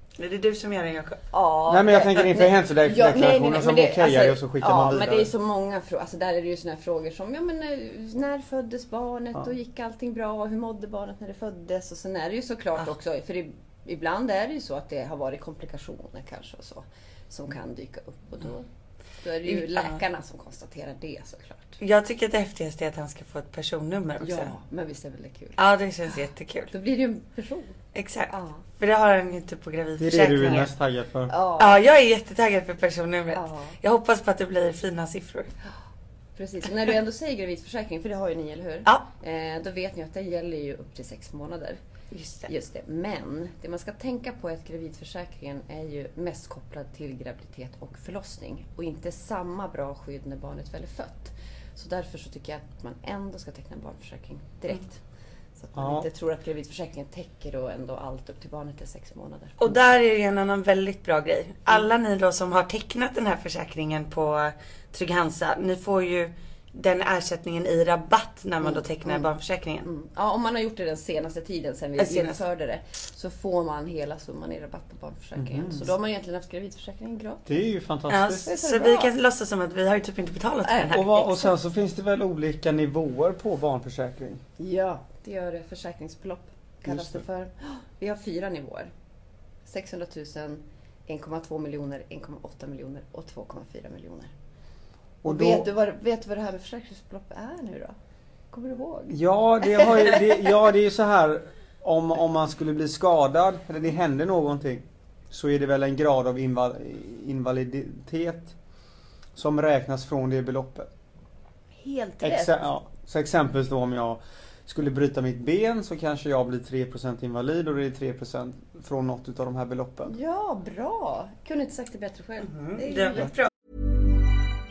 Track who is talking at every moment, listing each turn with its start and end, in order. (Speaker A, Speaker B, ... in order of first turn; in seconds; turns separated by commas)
Speaker A: 0.2-1.2, Speaker B: 1.3-18.7, Speaker C: 1.7-5.3, Speaker B: 19.2-21.8, Speaker A: 19.5-20.0, Speaker A: 21.8-24.5, Speaker B: 24.2-25.6, Speaker A: 25.6-26.7, Speaker B: 26.7-27.8, Speaker A: 27.9-30.7, Speaker B: 28.3-28.6, Speaker C: 30.0-31.3, Speaker B: 31.3-31.8, Speaker A: 31.6-35.5, Speaker B: 33.3-33.8, Speaker B: 36.4-41.8, Speaker A: 42.1-42.5, Speaker B: 42.5-55.0, Speaker B: 55.6-59.8, Speaker C: 55.8-56.1, Speaker A: 59.6-69.9, Speaker B: 68.6-69.3, Speaker B: 69.8-77.6, Speaker A: 72.0-72.4, Speaker C: 75.4-75.9, Speaker C: 77.5-78.5, Speaker A: 78.1-81.1, Speaker B: 78.5-79.1, Speaker B: 80.7-81.6, Speaker C: 80.9-84.4, Speaker B: 84.6-88.9, Speaker C: 86.9-87.2, Speaker B: 89.7-94.3, Speaker C: 95.2-95.7, Speaker B: 95.2-98.0, Speaker B: 98.5-100.2, Speaker C: 99.1-108.5, Speaker C: 109.3-110.9, Speaker B: 111.8-112.7, Speaker C: 112.2-120.1, Speaker B: 120.1-123.3, Speaker A: 122.5-123.5